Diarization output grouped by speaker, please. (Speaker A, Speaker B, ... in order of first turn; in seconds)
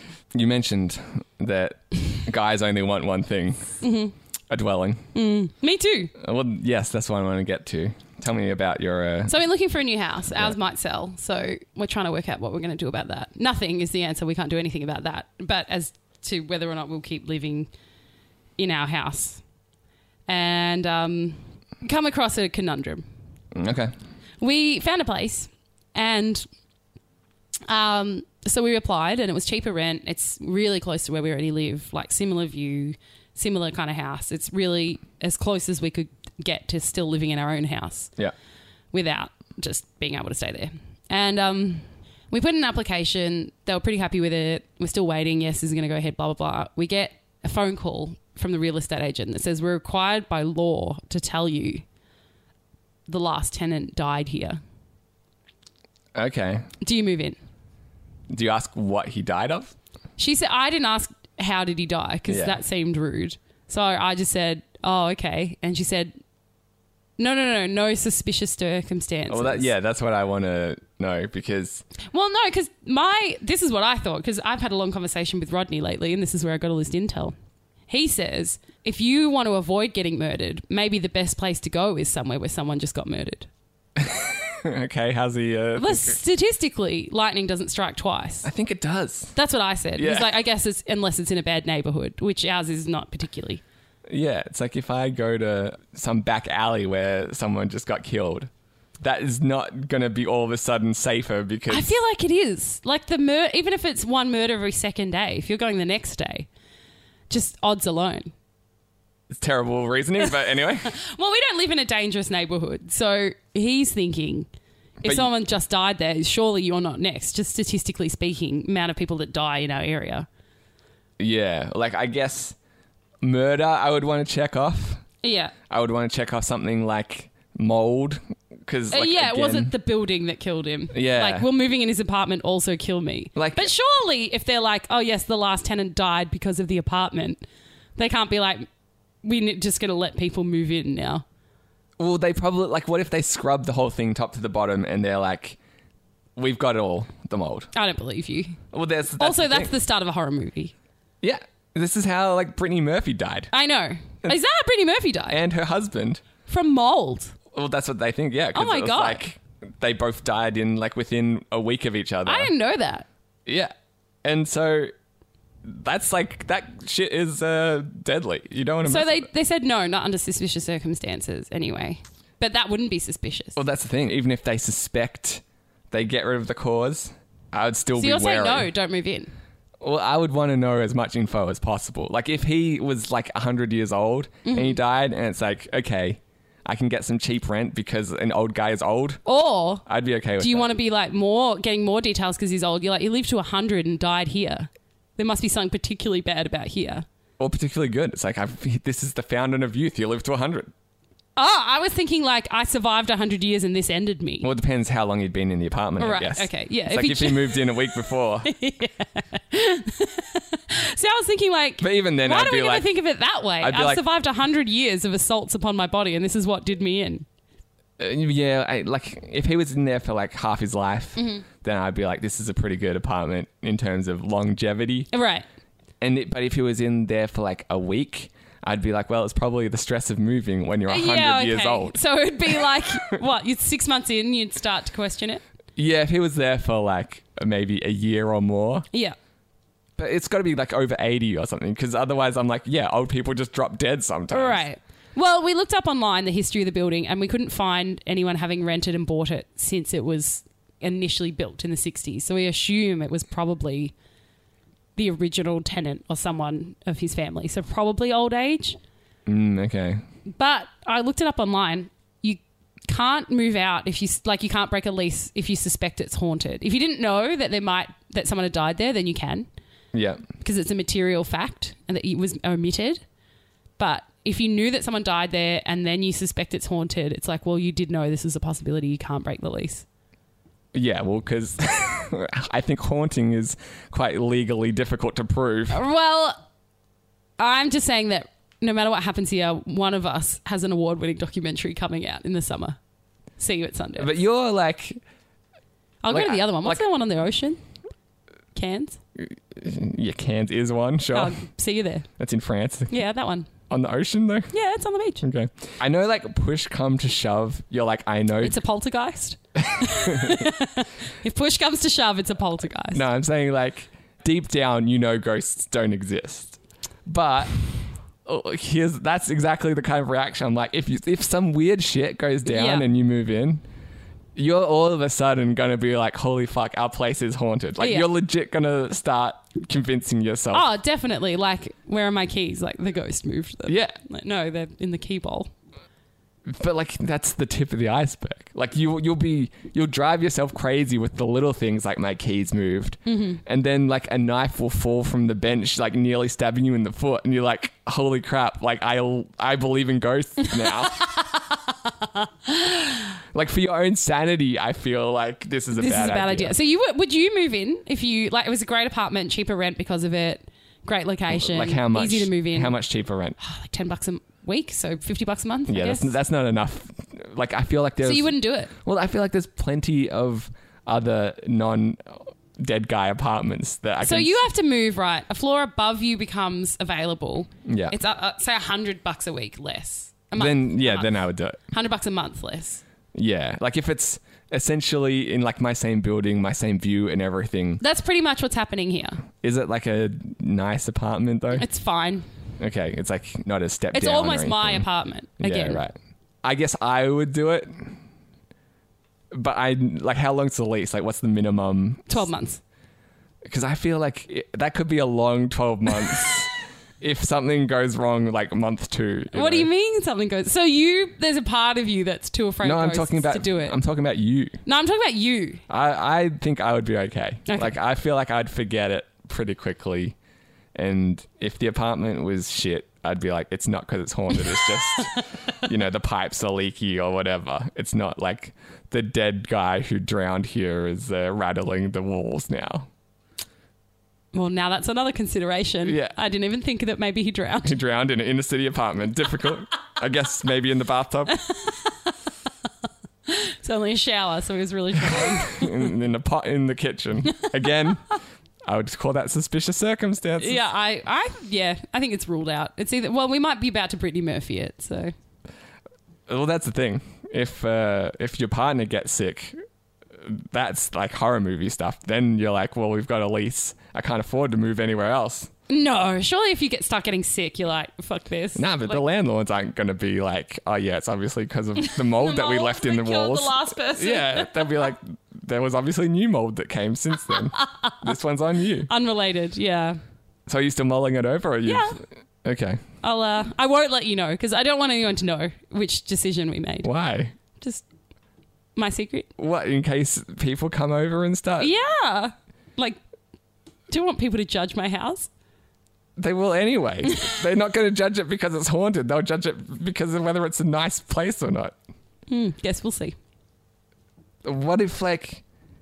Speaker A: 0.3-3.8, 4.5-5.1, 6.2-9.3, 23.5-23.9, 56.1-56.7, 58.3-59.7, 62.3-62.6, 69.3-71.9, 84.0-86.2, 88.4-89.3, 90.0-90.4, 94.1-102.0, 109.3-110.9, 115.0-115.3, 121.2-122.5, 123.2-125.0, 125.7-129.7, 130.9-131.5, 133.3-133.7, 142.0-145.6, 146.4-147.7, 148.7-149.7, 151.2-153.5, 155.3-156.2, 157.5-162.5, 163.4-163.7, 164.2-164.9, 165.6-169.3, 173.6-178.7, 179.8-189.2, 189.8-190.7, 197.4-200.7, 204.4-208.5, 211.8-212.9, 213.6-214.0, 218.0-225.1, 226.0-232.9, 235.8-238.9, 240.0-244.6, 259.3-260.0, 269.9-270.2, 280.7-285.8, 294.0-295.0, 296.1-296.9, 299.1-301.4, 302.2-302.9, 303.7-304.5, 305.2-308.6, 309.6-310.5, 312.9-317.6, 318.2-323.6, 324.4-330.7, 333.6-334.0, 336.4-351.0, 353.3-356.6, 361.3-363.4, 365.7-374.4, 377.6-377.9, 380.4-381.6, 383.1-387.8, 389.4-391.6, 392.6-394.9, 395.4-397.9, 399.3-402.3, 403.4-409.7, 412.6-414.6, 415.7-420.1, 420.7-432.9, 435.8-436.1, 437.6-441.4, 445.0-448.1, 448.6-450.6, 456.3-459.6, 460.2-465.5, 468.6-478.9, 480.5-482.8, 486.8-487.3, 489.4-491.7, 496.2-501.8, 504.4-505.4
Speaker B: 3.8-4.1, 5.1-6.1, 9.3-17.7, 18.6-19.4, 20.3-23.1, 24.4-26.5, 27.7-38.1, 38.9-51.8, 53.1-54.6, 56.8-57.4, 60.2-66.1, 67.2-69.7, 72.1-77.4, 77.9-83.5, 85.8-88.5, 89.3-93.6, 101.7-106.5, 107.3-108.3, 110.9-114.5, 115.0-120.3, 125.2-125.5, 128.9-137.4, 138.0-138.7, 139.2-141.2, 147.7-148.6, 149.2-150.7, 153.5-155.4, 156.5-157.3, 158.5-159.2, 162.2-163.1, 168.8-173.6, 177.9-179.3, 184.4-184.8, 189.3-189.8, 190.4-197.1, 201.4-204.5, 206.0-207.9, 208.4-217.3, 221.2-221.4, 225.1-225.4, 230.9-235.4, 244.3-253.9, 254.9-258.8, 260.3-269.5, 270.4-273.0, 273.8-279.9, 285.7-286.4, 287.4-292.8, 293.4-294.1, 296.0-297.6, 298.6-299.0, 301.1-302.1, 302.9-303.5, 304.5-305.2, 308.4-313.0, 322.4-322.9, 327.8-328.1, 330.5-335.5, 343.1-343.4, 350.6-353.1, 355.7-362.8, 363.4-366.1, 368.0-368.7, 374.0-381.1, 381.7-382.8, 387.8-389.2, 391.6-392.3, 393.9-395.8, 402.1-402.6, 409.3-413.8, 414.6-415.6, 417.5-417.7, 434.3-437.8, 441.5-441.9, 443.3-445.7, 450.4-455.1, 465.7-469.0, 471.8-474.9, 477.5-478.0, 478.9-480.0, 481.6-482.0, 483.0-486.9, 487.6-487.8, 488.8-489.3, 491.6-493.0, 493.9-495.3, 502.3-503.1